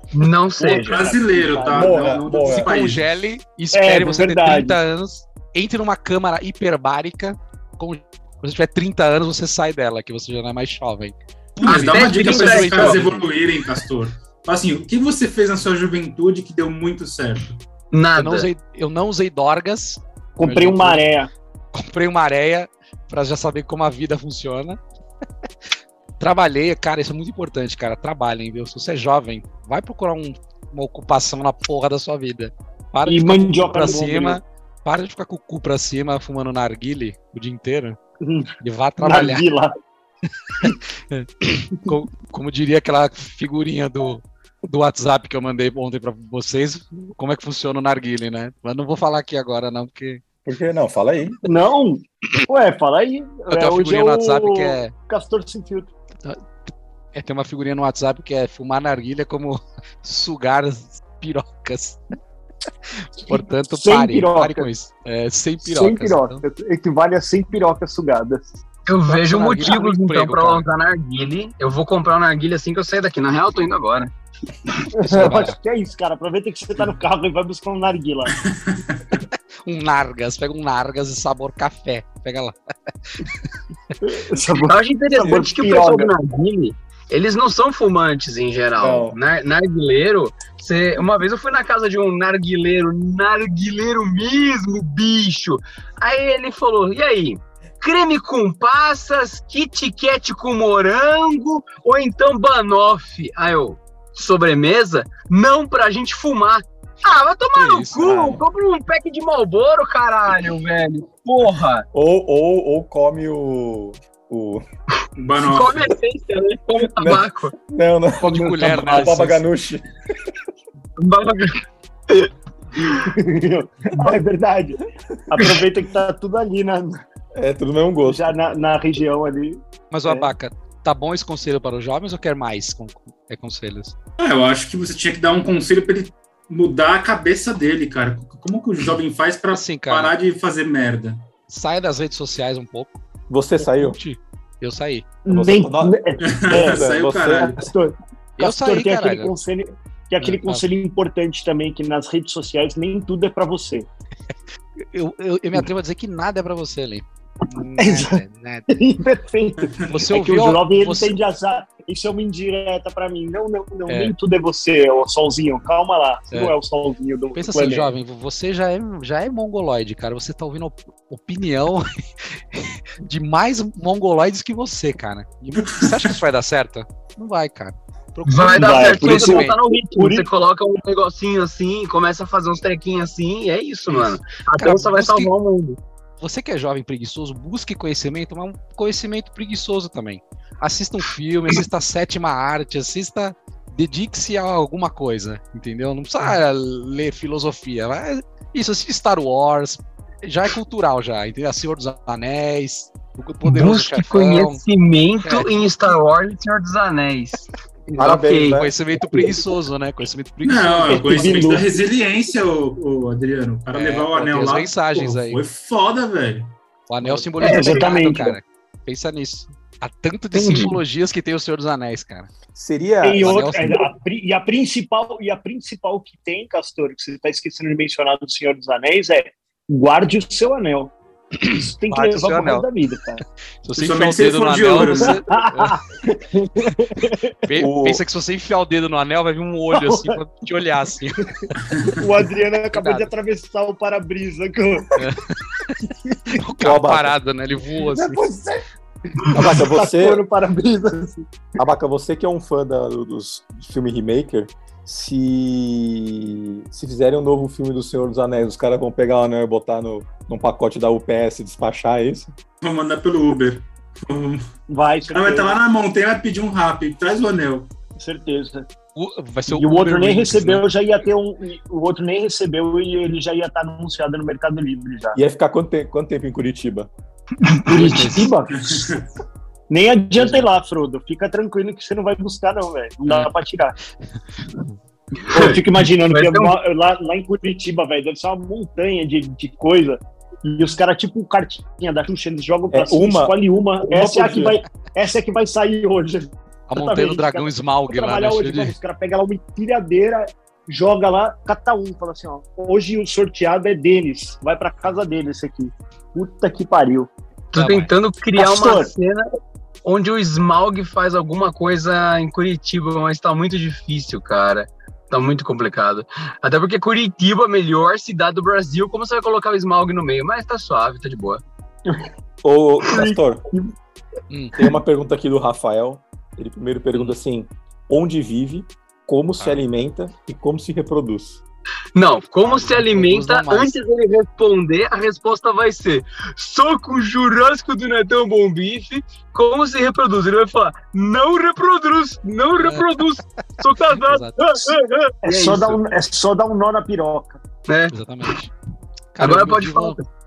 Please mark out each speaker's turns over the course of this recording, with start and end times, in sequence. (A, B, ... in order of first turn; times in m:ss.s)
0:00.1-0:01.0 A
0:00.6-0:02.3 B
0:00.7-0:03.1 C
0:01.7-0:02.7 D
0:02.4-0:13.3 E
0:03.7-0:04.8 B
0:11.6-0:13.0 A
0:11.6-0:17.6 C
0:17.9-0:18.5 A
0:18.2-0:21.0 E
0:20.4-0:21.3 B
0:21.7-0:24.8 E
0:26.2-0:38.0 E
0:33.0-0:34.4 B
0:38.2-0:39.8 B
0:38.6-0:39.5 E
0:40.6-0:50.2 E
0:50.4-0:51.4 D
0:51.4-0:55.9 B
0:53.5-0:54.9 E
0:56.2-1:02.0 E
1:02.9-1:06.4 E
1:03.3-1:04.7 B
1:05.6-1:08.5 B
1:08.8-1:14.1 A
1:09.0-1:10.7 E
1:14.9-1:18.4 B
1:15.1-1:15.6 E
1:18.4-1:19.0 C
1:19.6-1:22.5 E
1:23.1-1:23.4 E
1:24.0-1:26.1 B
1:24.6-1:51.8 A
1:25.2-1:25.5 D
1:28.8-1:29.2 D
1:47.5-1:48.4 E
1:51.9-1:54.6 D
1:55.2-1:55.9 C
1:55.4-1:57.5 A
1:57.0-1:59.8 D
1:58.2-1:59.4 E
2:01.0-2:03.0 A
2:02.9-2:07.0 B
2:07.4-2:08.3 D
2:08.0-2:10.3 B
2:09.9-2:13.9 E
2:14.2-2:21.2 C
2:19.5-2:20.1 E
2:21.5-2:23.0 E
2:23.3-2:24.0 D
2:23.6-2:25.0 E
2:25.2-2:33.9 B
2:25.3-2:27.6 D
2:26.2-2:27.6 C
2:28.4-2:29.3 E
2:30.2-2:30.6 E
2:34.8-2:38.7 E
2:37.8-2:47.9 B
2:39.9-2:41.2 E
2:43.9-2:44.1 E
2:47.3-2:59.6 E
2:55.6-2:56.1 C
2:58.2-3:05.8 A
2:58.5-3:00.2 B
3:03.9-3:05.3 E
3:06.2-3:24.6 E
3:23.4-3:28.6 A
3:25.2-3:25.5 E
3:28.0-3:28.7 D
3:28.5-3:31.6 E
3:30.4-3:36.5 C
3:30.9-3:31.8 B
3:33.7-3:35.4 E
3:36.9-3:42.3 E
3:37.4-3:38.4 B
3:37.4-3:37.9 A
3:40.3-3:40.7 A
3:42.5-3:43.5 D
3:43.0-3:53.2 B
3:43.2-3:43.8 E
3:51.4-3:52.7 E
3:53.6-3:55.8 E
3:53.8-3:55.2 C
3:55.3-3:57.3 B
3:57.4-4:02.0 E
3:57.5-3:58.0 D
3:59.7-4:00.2 B
4:01.3-4:05.0 B
4:02.7-4:03.1 E
4:05.0-4:08.3 E
4:06.6-4:07.2 D
4:07.9-4:08.6 D
4:09.2-4:11.3 B
4:09.3-4:10.2 D
4:11.6-4:22.3 D
4:22.6-4:24.5 C
4:24.7-4:25.6 B
4:25.1-4:27.7 C
4:28.0-4:28.7 B
4:28.9-4:30.7 E
4:29.5-4:35.2 B
4:35.1-4:36.9 D
4:37.4-4:38.9 B
4:37.7-4:38.3 E
4:38.5-4:39.0 C
4:39.7-4:43.8 B
4:40.2-4:40.4 E
4:45.2-4:46.6 A
4:45.3-5:07.1 B
4:52.7-4:54.6 D
4:56.7-4:58.8 E
5:07.5-5:09.2 A
5:07.5-5:07.9 E
5:08.4-5:08.9 B
5:09.8-5:21.4 A
5:22.4-5:23.4 D
5:22.9-5:23.7 B
5:24.3-5:24.6 E
5:24.5-5:31.4 D
5:32.0-5:45.8 A
5:32.4-5:33.8 E
5:42.6-5:43.0 E
5:43.9-5:44.4 E
5:45.2-5:47.4 B
5:47.7-5:48.3 A
5:47.9-5:48.5 E
5:49.1-5:50.0 E
5:49.2-5:50.0 A